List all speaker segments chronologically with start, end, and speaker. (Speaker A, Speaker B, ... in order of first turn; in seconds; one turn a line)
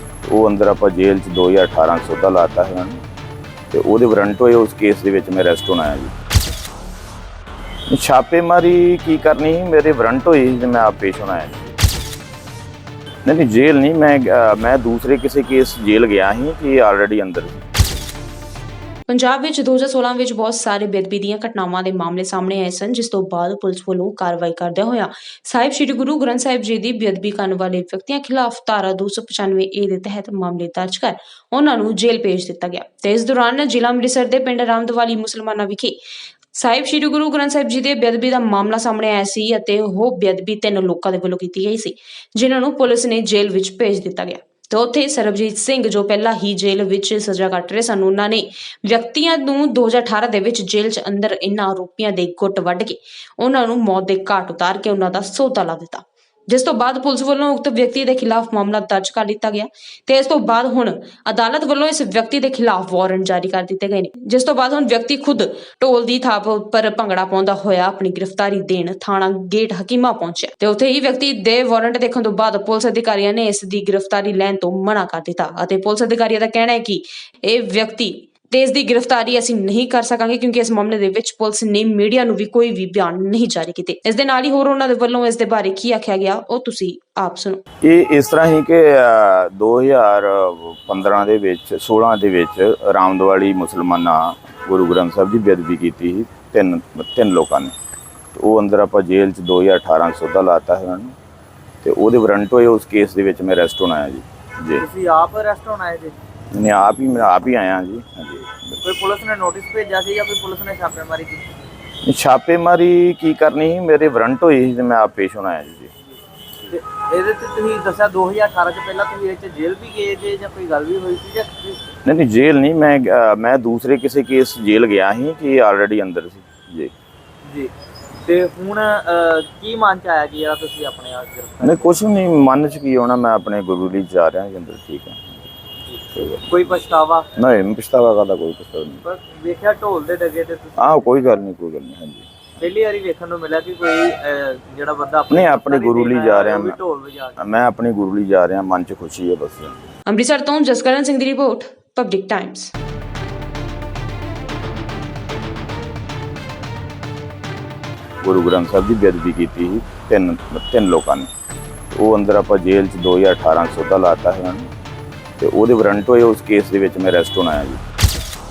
Speaker A: 0.2-3.0
Speaker A: 3.7-6.1
Speaker A: 7.9-11.8
Speaker A: 13.2-17.6
Speaker B: 19.1-36.0
Speaker B: 36.5-87.6
Speaker A: 87.8-97.7
Speaker A: 98.3-101.1
Speaker A: 101.8-104.8
Speaker C: 104.8-106.1
Speaker A: 106.5-108.8
Speaker C: 108.8-111.4
Speaker A: 112.0-115.9
Speaker C: 116.7-121.9
Speaker A: 122.0-126.9
Speaker C: 127.5-127.7
Speaker C: 128.2-131.9
Speaker A: 131.6-135.4
Speaker C: 135.9-137.3
Speaker A: 136.1-136.4
Speaker A: 137.3-139.0
Speaker C: 139.0-141.1
Speaker A: 140.8-142.6
Speaker C: 142.6-147.4
Speaker A: 145.3-146.8
Speaker A: 147.4-149.8
Speaker B: 150.1-152.7
Speaker A: 158.2-161.3
Speaker A: 161.9-164.7
Speaker A: 165.4-167.8